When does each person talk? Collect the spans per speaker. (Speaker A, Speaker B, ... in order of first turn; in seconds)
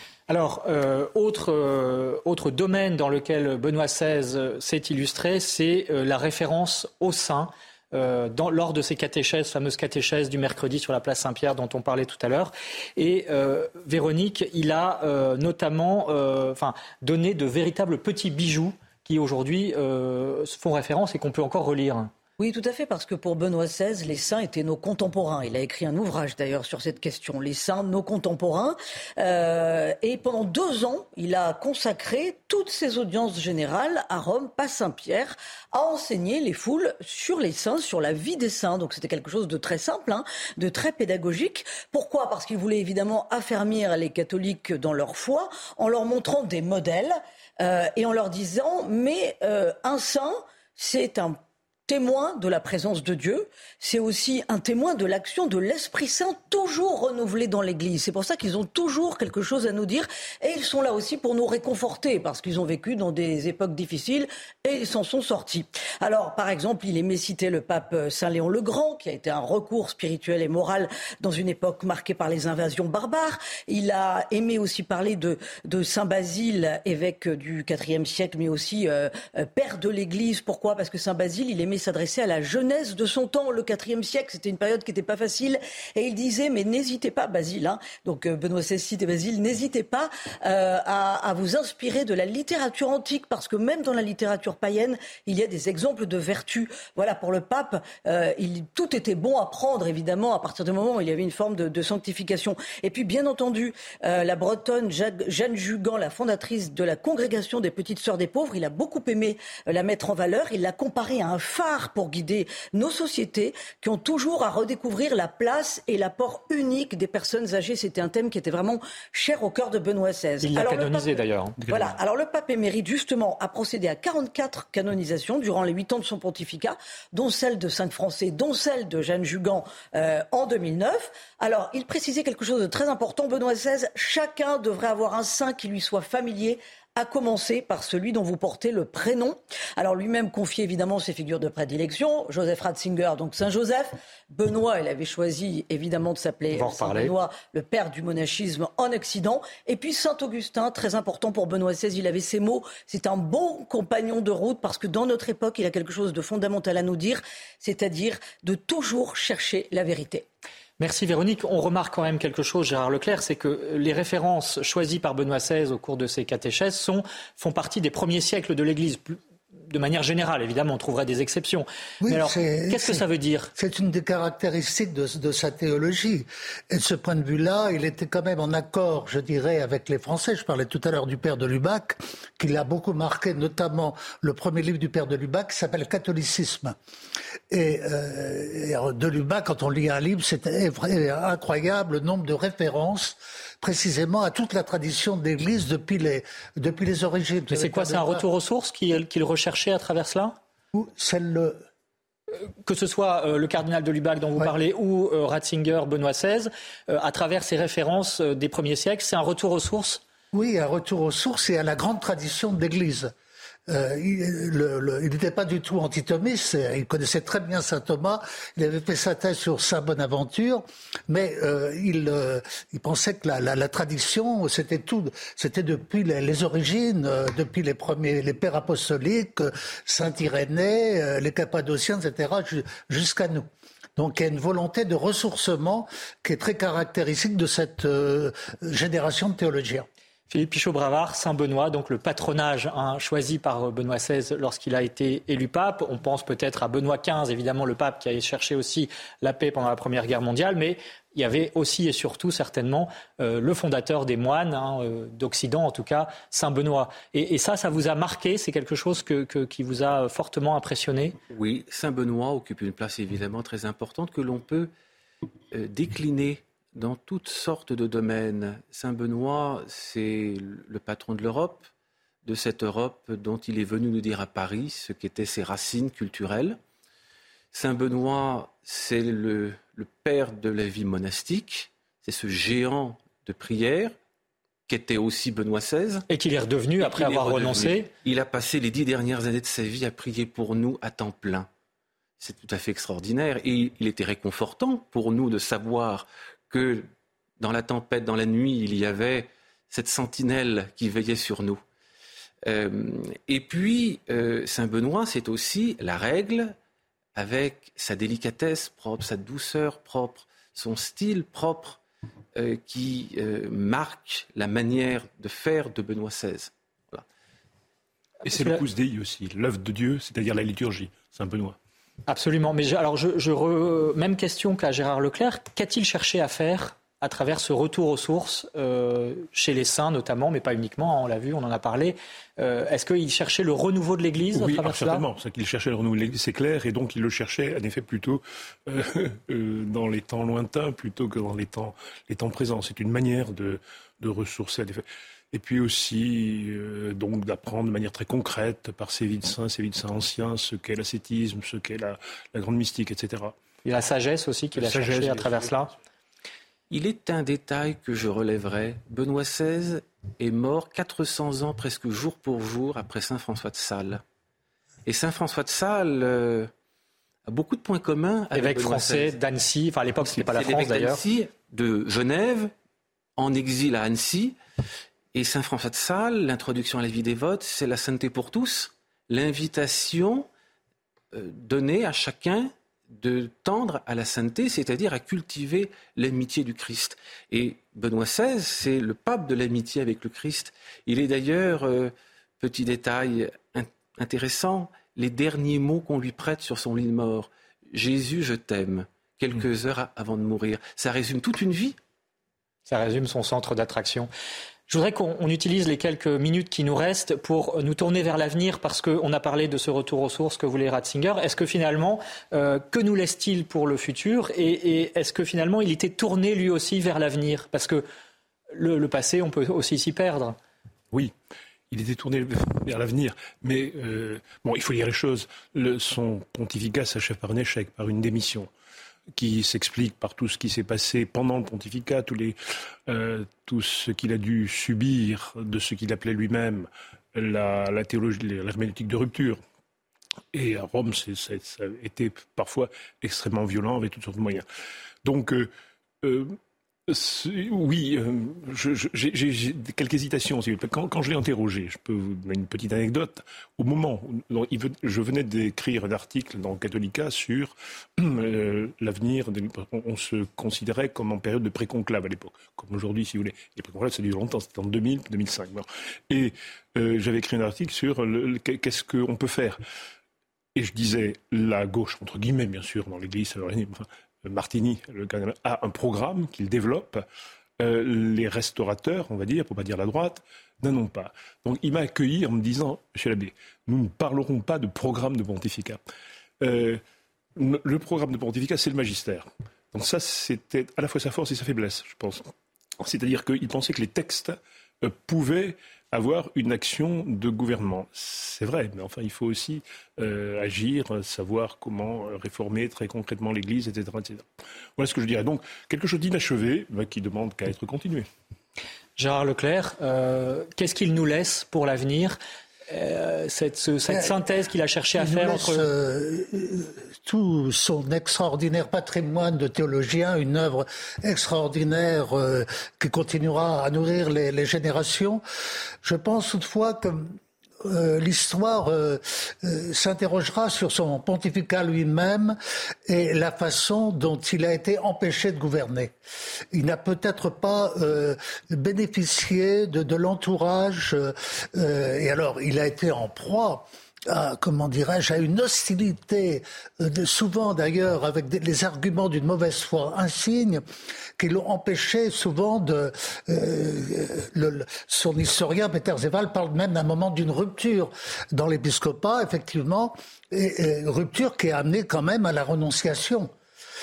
Speaker A: 0.3-22.1, 120.4-121.7, 146.5-147.1, 160.8-169.2, 169.7-173.5, 197.5-200.4, 202.4-210.0, 240.3-261.2, 286.1-287.9, 318.2-318.6, 322.1-335.1, 353.6-355.7, 368.3-371.0, 402.7-404.1, 404.7-417.8, 418.5-420.4, 509.0-515.6
Speaker B: 22.4-160.2
Speaker C: 172.0-173.0, 173.6-186.8, 187.5-198.2, 200.7-201.6, 210.3-213.1, 213.7-239.9, 513.9-514.2, 514.9-525.2, 525.8-532.4, 532.9-535.9, 536.5-550.6, 551.2-563.3
Speaker D: 261.3-264.7, 265.5-271.7, 272.2-276.6, 277.5-283.9, 284.7-286.1, 286.8-291.5, 292.2-296.9, 297.4-301.6, 302.4-306.6, 307.1-311.8, 312.3-317.1, 356.7-364.0, 364.9-366.5, 367.3-369.2, 370.0-372.5, 373.2-374.4, 375.1-380.3, 381.1-401.8
Speaker E: 318.2-321.6, 334.3-353.4, 354.5-355.7, 421.7-428.5, 429.1-439.4, 440.3-444.4, 445.0-445.5, 446.0-446.4, 446.9-469.6, 470.6-477.1, 477.6-485.8, 486.4-486.8, 487.4-508.1